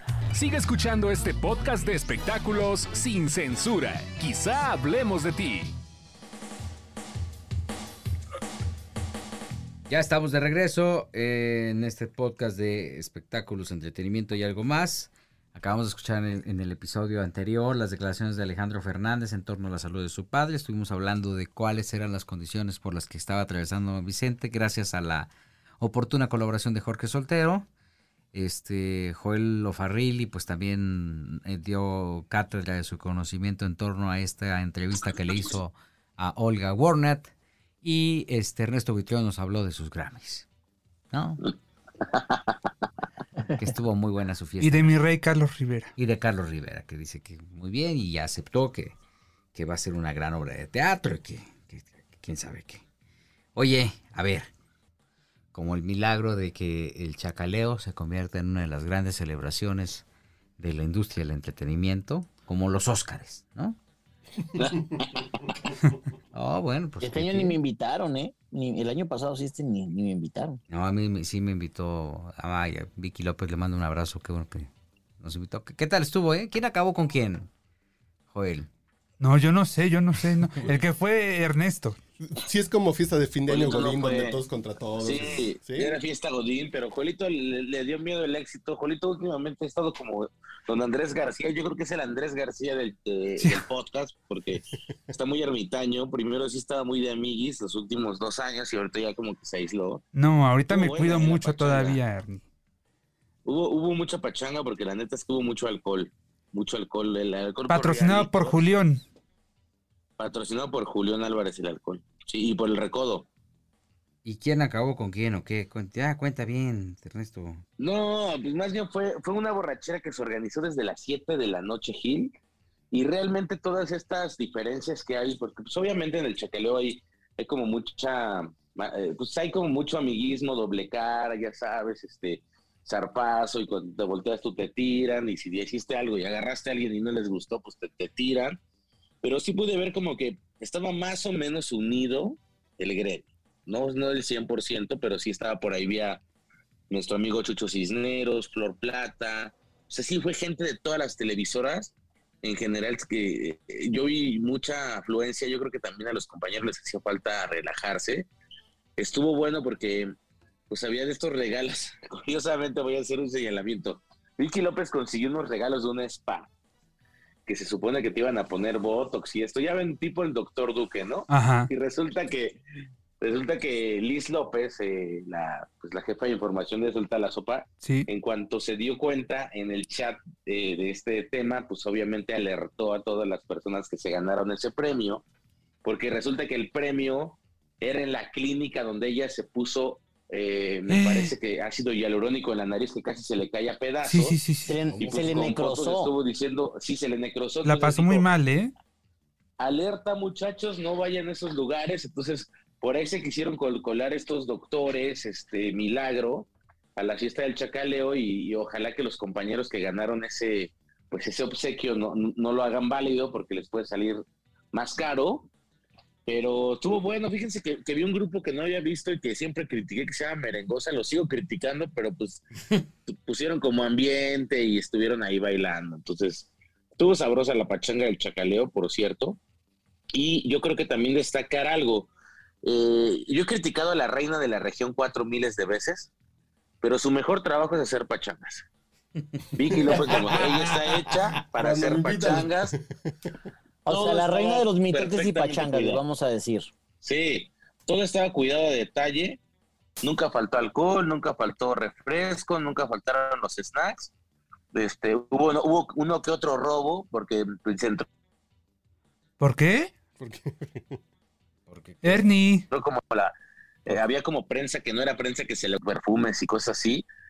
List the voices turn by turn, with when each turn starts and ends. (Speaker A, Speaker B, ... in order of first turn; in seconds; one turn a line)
Speaker A: 0.3-5.7
Speaker B: 9.9-27.7
Speaker B: 28.3-40.5
Speaker B: 41.1-41.5
Speaker C: 42.1-42.4
Speaker B: 43.5-45.0
Speaker D: 44.6-45.9
Speaker B: 46.0-48.9
Speaker B: 49.5-52.8
Speaker B: 53.5-54.5
Speaker B: 55.5-60.0
Speaker B: 60.6-63.8
Speaker C: 64.5-65.2
Speaker B: 66.3-67.5
Speaker E: 67.0-70.6
Speaker B: 70.7-77.5
Speaker B: 78.3-78.7
Speaker D: 79.2-82.0
Speaker F: 82.3-86.0
Speaker C: 83.5-84.4
Speaker C: 85.0-100.0
Speaker D: 100.1-102.4
Speaker C: 100.7-102.0
Speaker C: 103.4-108.6
Speaker D: 107.7-109.0
Speaker C: 110.2-113.3
Speaker B: 114.2-117.6
Speaker C: 117.8-122.3
Speaker C: 122.9-138.6
Speaker C: 139.2-146.2
Speaker C: 146.9-158.3
Speaker C: 159.0-160.1
Speaker C: 160.7-166.5
Speaker C: 167.4-172.6
Speaker D: 171.3-171.7
Speaker C: 173.2-185.2
Speaker D: 177.8-178.1
Speaker C: 185.8-194.4
Speaker D: 190.9-191.3
Speaker D: 194.0-194.9
Speaker E: 194.7-196.1
Speaker C: 195.0-198.2
Speaker D: 197.6-198.7
Speaker C: 199.6-215.5
Speaker C: 216.2-222.4
Speaker C: 223.1-229.4
Speaker C: 230.1-232.1
Speaker C: 232.6-236.1
Speaker C: 236.8-238.6
Speaker C: 239.5-242.7
Speaker B: 239.8-241.2
Speaker F: 239.8-240.3
Speaker F: 241.5-243.4
Speaker E: 243.8-246.7
Speaker C: 243.9-246.0
Speaker C: 247.0-249.4
Speaker C: 250.0-254.1
Speaker C: 254.7-258.1
Speaker D: 259.4-259.9
Speaker F: 260.2-261.0
Speaker B: 261.7-262.3
Speaker D: 262.0-262.6
Speaker C: 262.7-263.3
Speaker C: 263.9-267.1